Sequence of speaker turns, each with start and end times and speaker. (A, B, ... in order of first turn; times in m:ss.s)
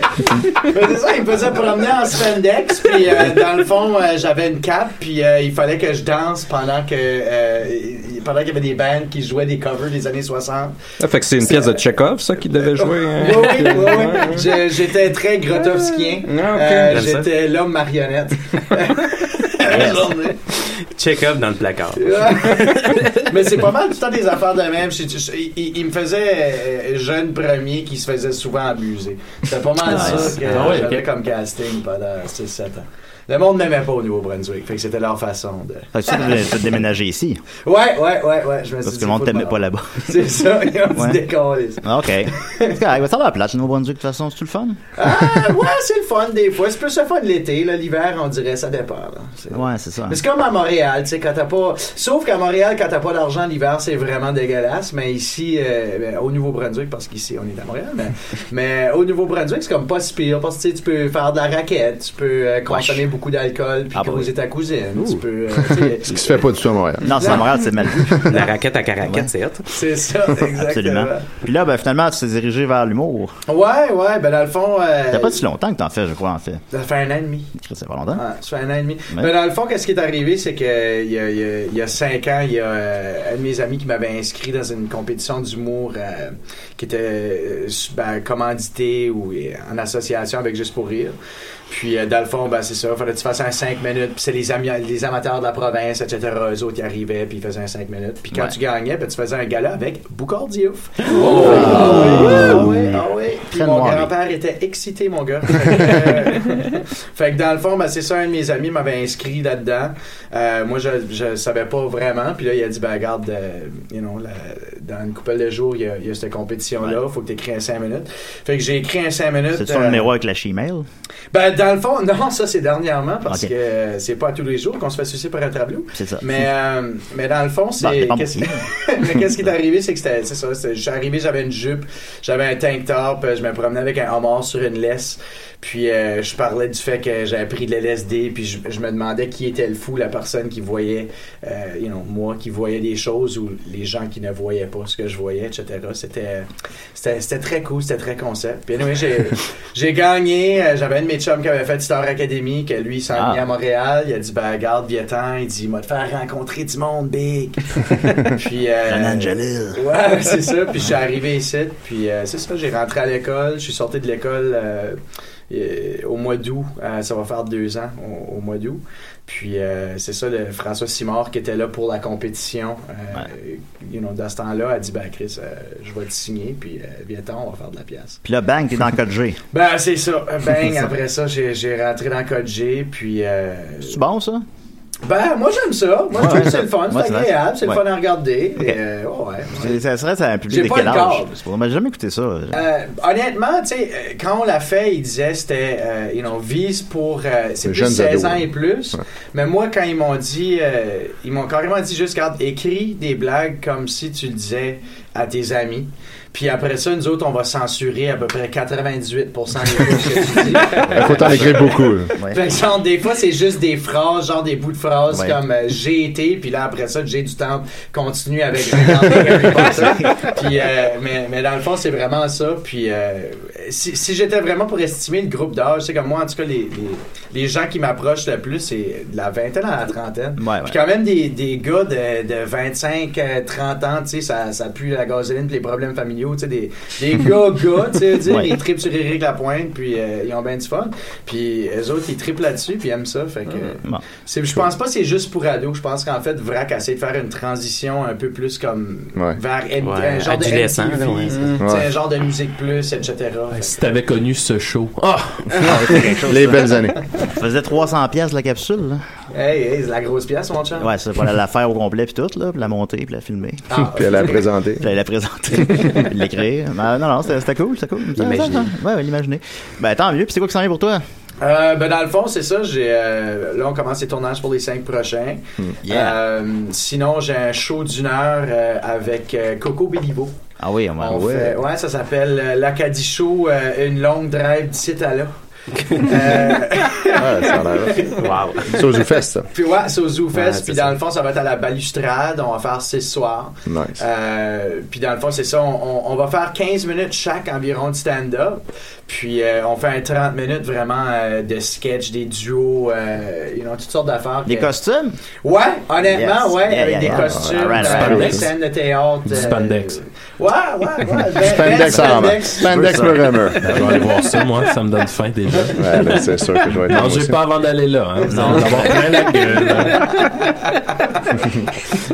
0:00.3-0:10.8 A
0:11.0-0:14.4 B
0:11.4-0:11.8 A
0:12.6-0:20.4 A
0:16.4-0:16.9 B
0:16.4-0:17.3 C
0:19.6-0:20.1 D
0:20.9-0:23.3 C
0:22.0-0:36.4 A
0:29.8-0:30.6 D
0:29.9-0:31.1 E
0:35.9-0:37.4 D
0:37.6-0:42.8 A
0:38.8-0:41.2 D
0:41.8-0:44.8 D
0:45.0-1:06.5 A
0:49.5-0:50.2 D
1:02.7-1:03.1 D
1:03.9-1:04.3 D
1:05.0-1:05.2 D
1:06.0-1:07.4 F
1:07.0-1:09.3 D
1:07.1-1:08.1 A
1:08.3-1:09.7 C
1:09.7-1:11.3 A
1:10.4-1:13.3 D
1:13.5-1:15.4 A
1:15.1-1:16.6 D
1:16.7-1:17.5 A
1:17.6-1:18.2 D
1:18.1-1:31.2 A
1:31.7-2:00.1 A
1:41.1-1:42.5 E
1:41.3-1:44.1 D
1:59.5-2:00.8 D
2:01.3-2:45.0 A
2:05.9-2:06.4 D
2:07.8-2:08.6 D
2:33.1-2:33.4 D
2:38.8-2:39.9 D
2:45.5-2:58.2 A
2:58.2-2:59.4 D
2:59.5-3:04.0 A
3:03.8-3:04.4 D
3:05.0-3:09.8 A
3:06.1-3:07.8 D
3:09.5-3:12.6 D
3:10.5-3:11.4 A
3:12.5-4:13.7 A
3:17.6-3:18.5 F
3:30.9-3:32.1 F
3:30.9-3:32.4 D
3:35.1-3:35.4 D
3:39.4-3:40.3 D
3:50.4-3:50.8 D
3:58.2-3:58.6 D
4:09.8-4:11.6 C
4:11.6-4:11.9 F
4:13.5-4:15.5 E
4:15.6-4:19.0 D
4:16.2-4:17.0 F
4:19.3-4:20.9 A
4:20.8-4:23.7 D
4:23.7-4:24.5 A
4:23.8-4:24.9 F
4:24.8-4:31.0 D
4:28.2-4:28.6 C
4:31.4-4:40.3 A
4:35.8-4:36.2 D
4:40.6-4:41.5 D
4:41.0-4:45.3 A
4:41.1-4:41.5 F
4:45.9-4:48.2 A
4:47.1-4:49.5 F
4:48.2-4:48.7 C
4:49.5-5:04.7 A
4:50.3-4:50.9 C
4:53.6-4:54.0 F
5:04.4-5:05.2 D
5:05.4-5:13.1 A
5:06.0-5:08.5 D
5:07.1-5:08.4 F
5:07.8-5:08.5 E
5:09.3-5:10.0 E
5:11.4-5:13.7 F
5:11.7-5:13.8 D
5:13.6-5:20.5 E
5:13.7-5:14.2 A
5:15.8-5:17.4 F
5:18.3-5:19.0 D
5:20.7-5:21.3 A